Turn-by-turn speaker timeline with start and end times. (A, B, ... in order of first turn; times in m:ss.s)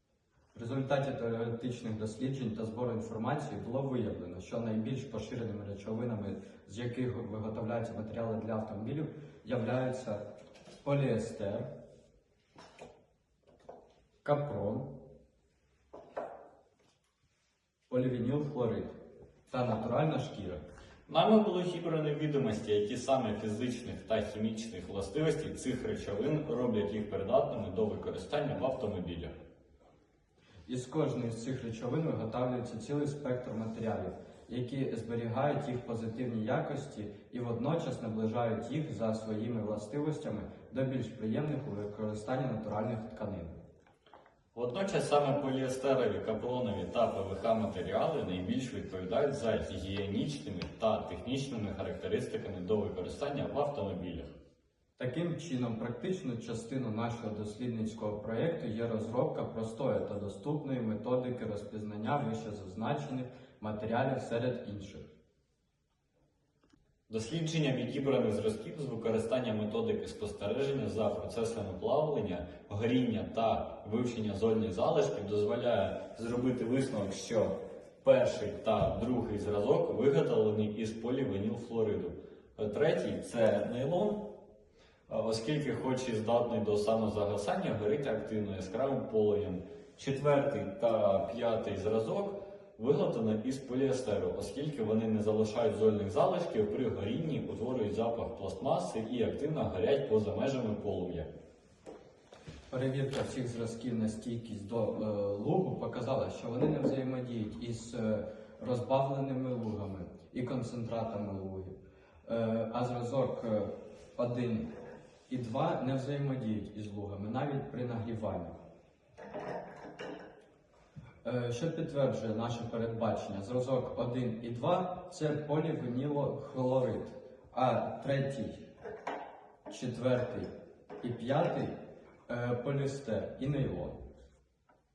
0:00.6-0:10.2 A
0:10.8-0:11.7 A
0:14.2-0:14.9 A
0:17.9-0:19.0 A
0:19.5-0:20.6 A
0:21.1-0:29.3 B
0:30.7-0:43.6 A
0:44.5-0:54.3 B
0:55.0-1:05.1 A
1:07.1-1:24.3 B
1:25.1-1:41.3 B
1:42.7-1:54.7 A
1:55.3-1:58.5 A
2:01.2-2:08.6 A
2:09.7-2:10.5 A
2:11.0-2:11.8 A
2:12.3-2:14.0 A